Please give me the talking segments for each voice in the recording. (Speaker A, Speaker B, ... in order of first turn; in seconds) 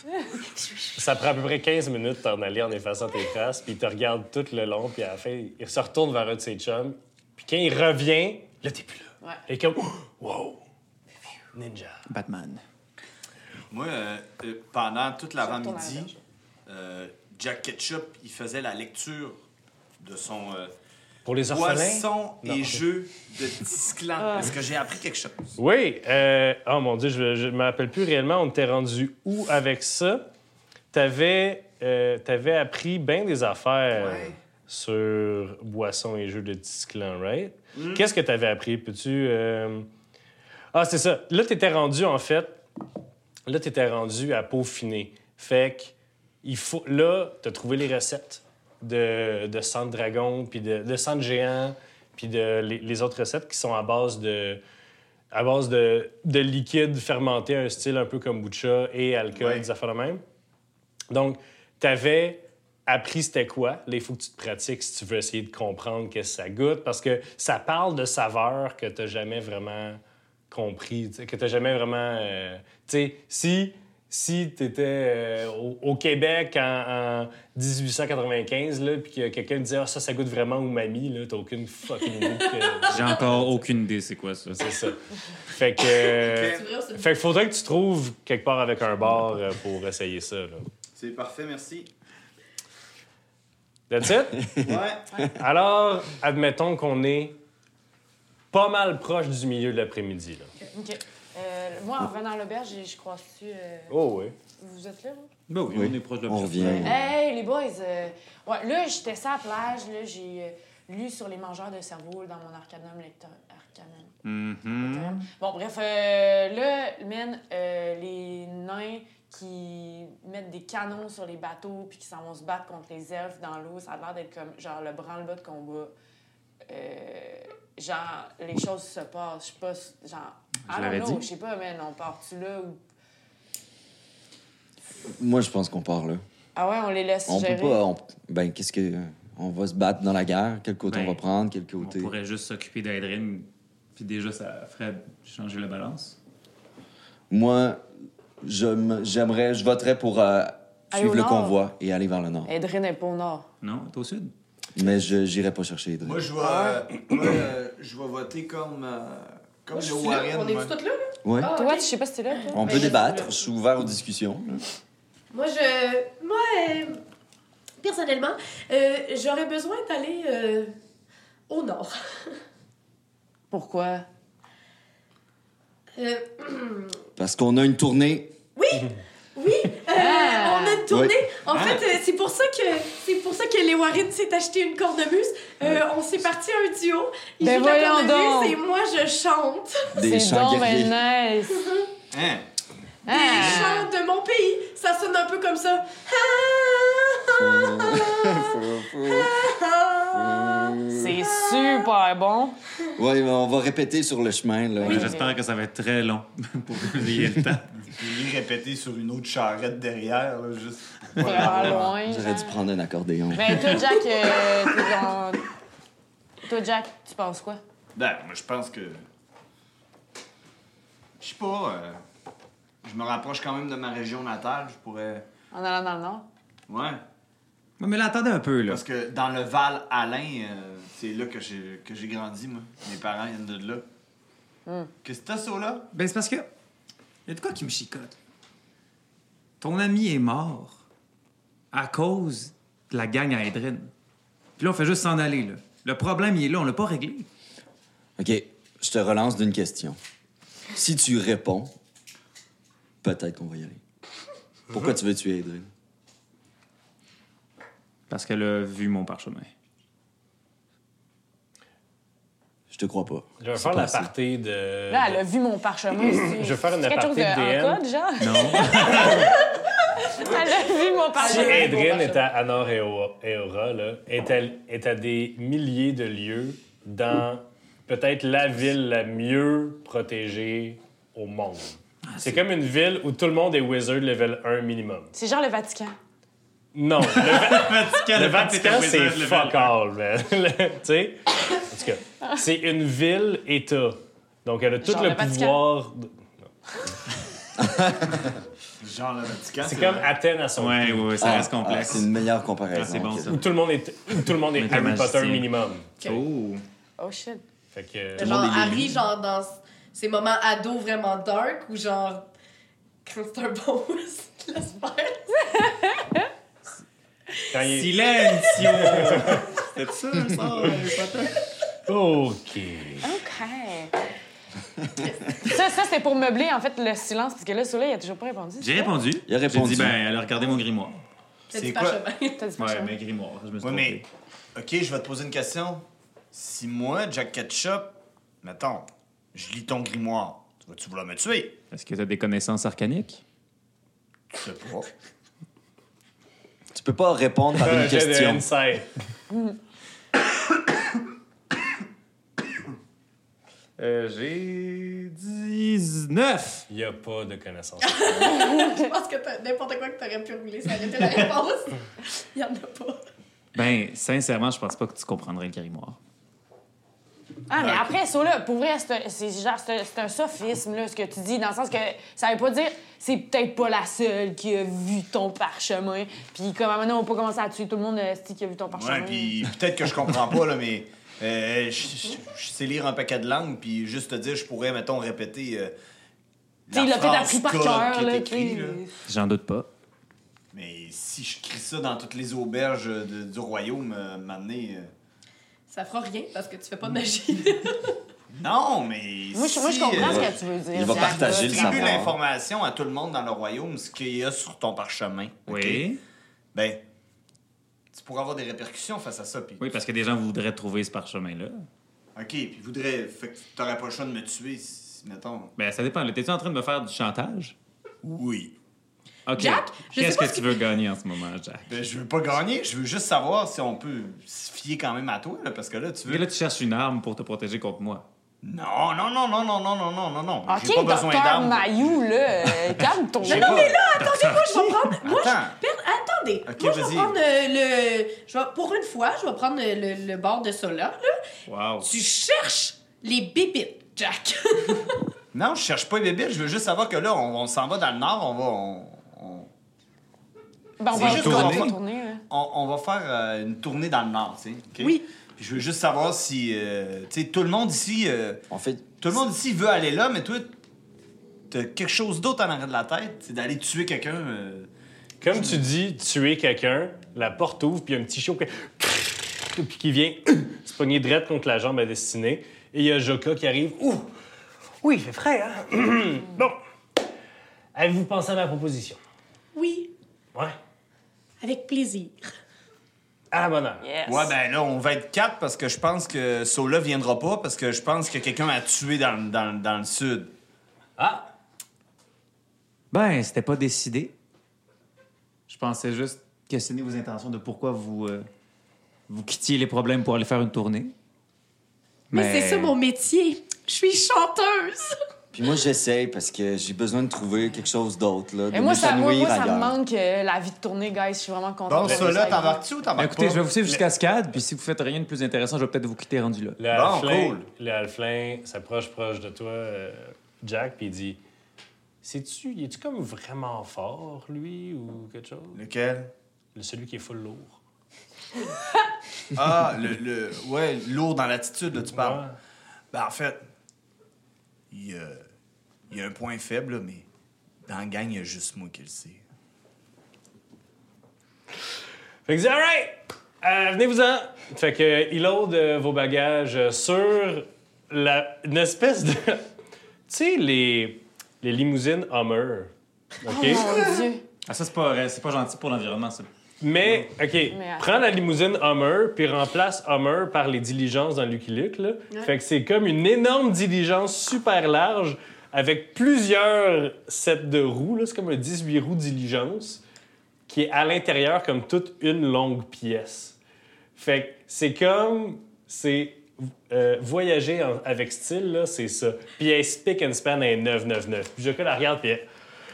Speaker A: 0.2-0.7, 15.4-16.2, 24.2-24.5, 100.7-103.9, 104.6-105.3, 106.8-114.1, 114.8-125.9, 126.7-132.8, 136.6-137.8, 150.9-151.6, 152.5-153.5, 156.4-156.8, 161.5-163.2, 173.5-174.1, 179.9-180.8, 187.4-188.6, 190.0-191.7, 193.0-193.9, 200.9-202.6, 204.8-205.3, 211.2-212.6, 213.3-215.4, 216.4-217.6, 225.5-226.3, 234.7-234.9, 264.9-269.4, 270.0-272.2, 285.1-285.9, 294.8-295.6, 307.0-307.4, 315.6-316.2, 323.0-323.9, 325.4-328.9, 332.4-332.9, 367.5-379.4, 386.7-388.9, 399.3-402.0, 430.5-433.6, 450.8-452.2, 483.8-484.3, 508.5-512.6, 553.2-554.2, 557.5-557.9
Speaker B: 0.9-10.6, 11.5-12.1, 21.2-22.8, 25.6-30.2, 30.9-39.9, 40.7-42.6, 43.5-54.6, 55.3-60.2, 61.1-83.5, 84.5-90.7, 93.9-94.6, 95.2-97.4, 98.5-100.5, 103.9-104.3, 263.4-265.2, 266.0-267.8, 268.9-269.3, 271.2-285.1, 286.7-296.4, 299.6-301.4, 303.2-306.0, 307.7-308.4, 317.5-317.9, 318.7-319.5, 321.9-323.1, 347.6-348.9, 356.7-358.4, 465.2-474.1, 474.8-476.6, 477.7-479.0, 483.3-483.9, 491.0-491.3, 516.6-521.2, 522.0-525.6, 526.5-527.6, 531.9-532.4, 542.3-549.5, 550.1-552.7, 553.2-553.8, 556.6-569.8, 570.5-573.4, 574.0-582.2
Speaker C: 12.1-12.6, 82.9-84.9, 105.5-107.0, 114.2-115.2, 130.7-131.2, 140.9-141.2, 141.8-146.2, 153.6-154.3, 204.8-207.8, 227.8-228.8, 235.9-236.5, 237.2-238.2, 239.6-240.8, 241.7-243.9, 244.6-247.3, 258.1-259.5, 268.2-269.3, 282.1-282.4, 287.1-289.7, 300.6-302.1, 302.7-303.5, 304.2-305.5, 306.0-306.6, 317.6-321.4, 328.6-331.0, 332.6-334.1, 341.7-343.2, 353.8-356.6, 363.5-366.0, 389.1-389.7, 405.5-406.0, 409.6-411.6, 415.6-417.5, 419.3-421.7, 426.1-428.0, 433.9-435.0, 441.5-441.9, 450.9-451.7, 492.9-494.1, 495.5-498.3, 499.1-500.9, 502.1-502.8, 513.0-516.6, 554.5-556.3
Speaker D: 13.7-16.1, 16.6-19.4, 20.0-20.7, 21.4-25.6, 33.9-34.4, 37.7-38.0, 59.3-59.6, 86.2-86.6, 91.0-91.9, 94.6-95.0, 156.0-160.7, 181.5-181.9, 192.1-192.5, 207.8-212.0, 217.9-219.0, 221.2-222.0, 222.8-225.2, 226.7-227.0, 228.7-233.8, 235.0-235.9, 298.8-300.1, 331.5-332.0, 333.6-334.0, 334.5-341.6, 344.3-344.9, 367.6-367.9, 378.7-385.7, 386.7-388.8, 390.5-394.9, 398.3-405.9, 406.5-406.8, 407.9-409.6, 412.1-415.5, 418.0-418.5, 421.7-426.2, 428.4-432.1, 433.2-433.8, 435.0-435.6, 436.4-437.2, 445.3-449.5, 450.9-451.8, 452.3-458.4, 458.9-460.6, 461.5-464.7, 465.3-465.6, 484.0-490.3, 511.7-513.5, 516.7-517.5, 525.5-526.1, 529.3-532.2, 532.9-533.4, 534.7-535.2, 535.9-537.0, 537.6-539.2
Speaker E: 82.4-83.1, 86.4-87.1, 159.7-163.3, 165.3-167.0, 167.8-170.7, 171.5-172.4, 175.9-177.0, 178.6-189.9, 191.6-191.9, 193.1-200.8, 201.6-201.8, 271.1-272.1, 308.1-312.3, 313.0-315.5, 318.0-318.7, 331.5-332.4, 357.8-363.0, 395.7-397.9, 419.3-420.6, 433.2-441.2, 441.8-445.0, 454.8-455.0, 479.5-479.9, 481.4-482.3, 502.1-505.0
Speaker F: 105.7-107.0, 135.1-136.2, 137.3-142.1, 147.3-147.8, 148.4-152.5, 154.7-156.2, 161.2-161.5, 162.5-164.6, 177.2-178.3, 180.9-181.2, 189.9-190.9, 197.3-199.6, 200.1-201.2, 202.9-205.2, 211.6-213.8, 248.2-250.0, 250.7-251.7, 253.0-253.8, 254.7-255.7, 262.7-264.1, 297.6-298.1, 301.2-303.4, 308.2-309.0, 329.3-330.0, 346.7-348.4, 400.0-402.1, 458.5-458.9, 505.3-509.7